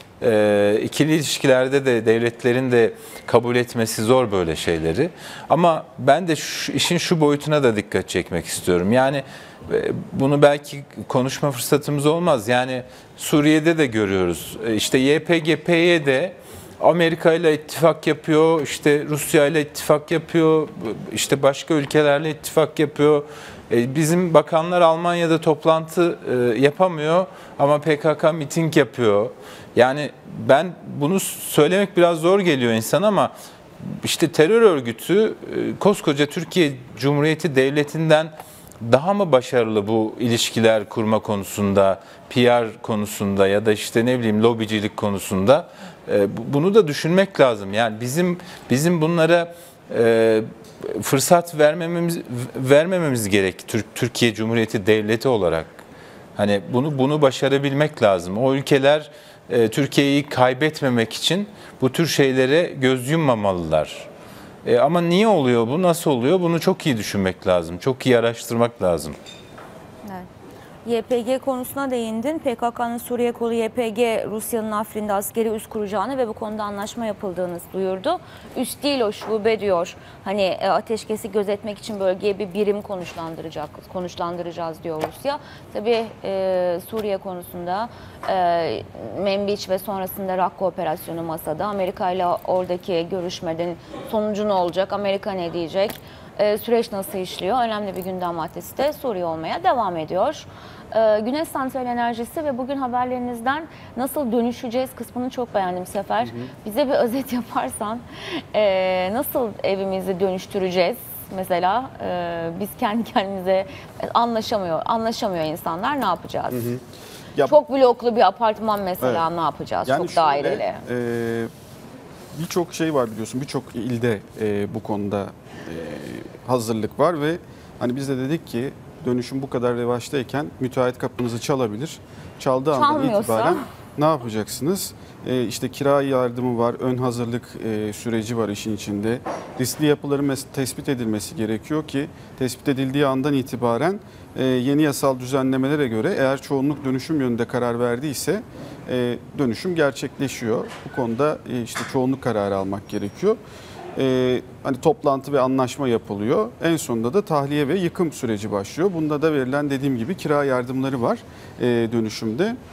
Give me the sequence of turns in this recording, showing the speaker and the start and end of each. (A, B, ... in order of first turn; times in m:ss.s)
0:00.2-0:55.7 A
0:56.4-1:04.1 A
1:04.6-1:09.2 A
1:10.8-1:56.6 B
1:46.2-1:46.5 C
1:56.5-1:56.8 C
1:57.4-2:00.8 B
1:59.8-2:01.5 C
2:02.3-2:33.4 C
2:12.7-2:13.7 B
2:34.0-2:42.6 C